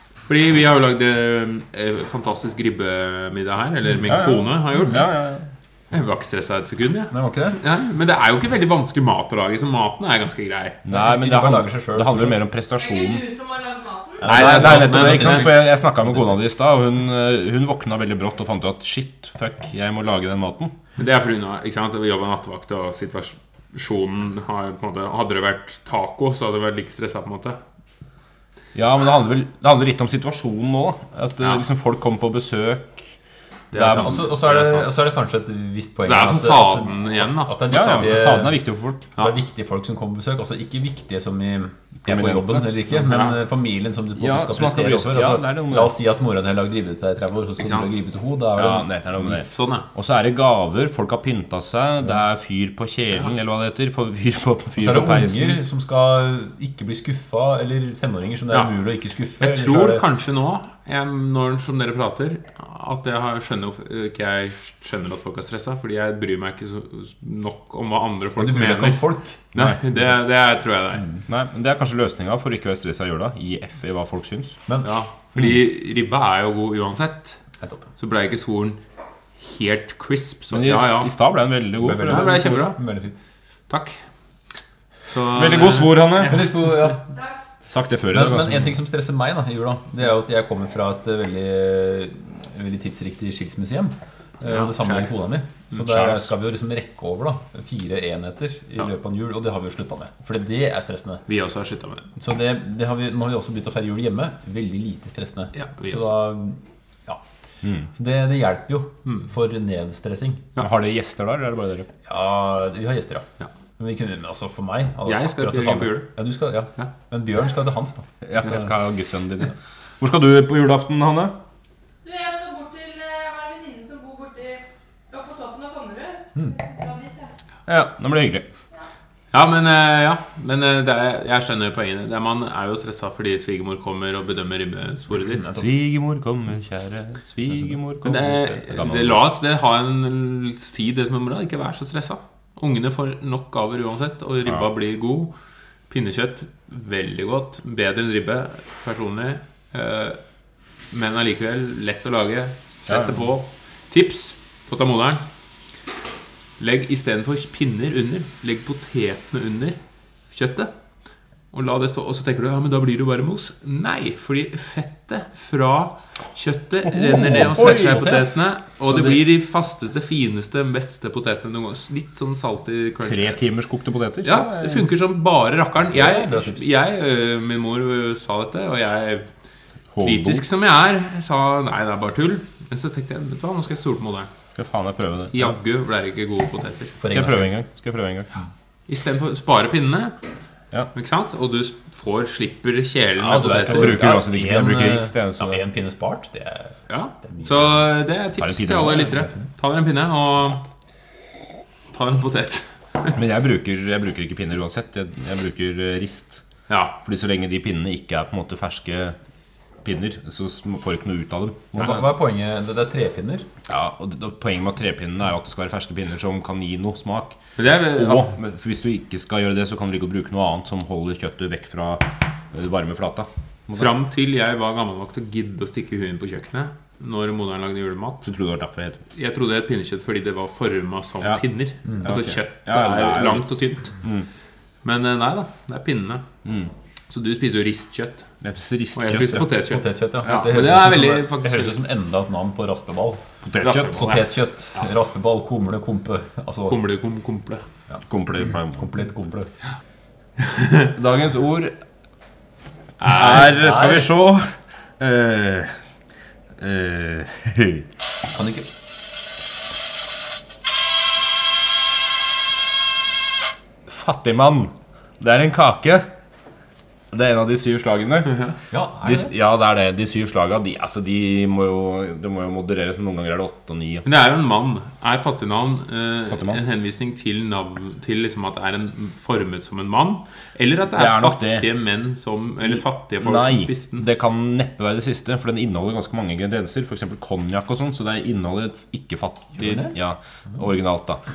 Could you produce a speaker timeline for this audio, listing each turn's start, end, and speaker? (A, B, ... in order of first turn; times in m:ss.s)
0:00.3-0:05.1 A
0:04.0-0:05.5 B
0:05.9-0:10.8 A
0:07.1-0:07.6 C
0:10.8-0:13.2 B
0:10.9-0:12.4 C
0:12.8-0:14.2 D
0:14.2-0:16.2 C
0:14.2-0:15.7 A
0:14.2-0:20.8 B
0:21.0-0:27.6 A
0:28.7-0:33.1 B
0:33.7-0:34.9 A
0:33.7-0:34.3 B
0:33.9-0:38.6 C
0:36.0-0:38.1 A
0:37.7-0:39.1 B
0:39.2-0:49.6 C
0:42.0-0:42.7 B
0:42.9-0:43.4 A
0:44.2-0:45.9 B
0:47.6-0:47.9 A
0:48.5-0:55.6 B
0:49.3-0:49.8 A
0:54.8-1:00.0 C
0:59.4-1:11.1 A
1:08.4-1:09.4 C
1:11.3-1:14.6 B
1:14.8-1:17.4 A
1:18.0-1:18.8 A
1:19.4-1:21.1 A
1:20.5-1:22.5 B
1:21.8-1:23.2 C
1:22.0-1:22.8 A
1:23.7-1:24.0 A
1:25.1-1:26.9 A
1:25.3-1:26.4 B
1:26.2-1:27.0 C
1:27.7-1:28.8 B
1:28.1-1:41.2 C
1:34.5-1:35.1 A
1:35.7-1:36.3 B
1:41.3-1:42.1 A
1:42.2-1:47.2 C
1:45.6-1:46.2 A
1:47.9-1:50.5 C
1:50.6-1:51.9 B
1:52.1-1:53.2 C
1:53.8-1:58.6 C
1:55.0-1:56.1 A
1:58.2-2:01.4 B
2:02.0-2:07.3 D
2:07.7-2:08.4 B
2:09.3-2:15.5 A
2:15.4-2:15.6 C
2:15.6-2:19.2 B
2:18.0-2:25.3 A
2:25.9-2:30.2 A
2:30.9-2:35.2 A
2:36.6-2:39.8 A
2:40.3-2:40.7 A
2:41.5-2:53.4 A
2:46.9-2:48.0 B
2:47.2-2:49.2 C
2:53.0-2:54.9 B
2:54.2-2:59.3 A
2:55.9-2:56.6 C
2:59.9-3:00.4 B
3:00.0-3:04.3 A
3:04.6-3:05.5 B
3:05.3-3:07.0 A
3:07.0-3:07.5 C
3:07.1-3:08.3 B
3:08.9-3:10.1 A
3:10.9-3:14.2 A
3:13.2-3:17.7 C
3:13.2-3:15.6 B
3:16.9-3:20.6 A
3:18.4-3:19.1 B
3:21.9-3:23.2 A
3:23.2-3:26.4 B
3:26.7-3:27.0 A
3:27.0-3:29.2 B
3:29.8-3:32.0 B
3:31.7-3:33.5 C
3:33.7-3:37.4 B
3:37.6-3:38.3 A
3:37.9-3:43.9 B
3:43.7-3:48.3 A
3:48.2-3:49.0 B
3:49.1-3:54.0 A
3:52.0-3:53.4 B
3:54.8-3:56.2 A
3:56.4-3:56.7 B
3:57.1-3:58.3 A
3:58.4-3:59.5 B
3:58.9-4:01.8 A
3:59.6-4:03.2 C
4:03.4-4:04.1 B
4:03.6-4:04.3 A
4:03.9-4:06.8 C
4:06.7-4:07.6 A
4:08.1-4:08.8 B
4:08.7-4:09.5 C
4:10.4-4:10.9 A
4:10.9-4:11.8 B
4:13.0-4:13.5 A
4:13.0-4:15.8 B
4:13.4-4:14.1 C
4:16.6-4:17.9 B
4:18.3-4:18.7 C
4:23.9-4:26.1 B
4:27.1-4:28.4 B
4:28.3-4:28.5 A
4:28.7-4:29.3 C
4:29.0-4:34.0 B
4:34.0-4:44.0 A
4:36.3-4:36.6 B
4:40.9-4:41.7 B
4:42.7-4:51.2 B
4:49.6-4:50.0 C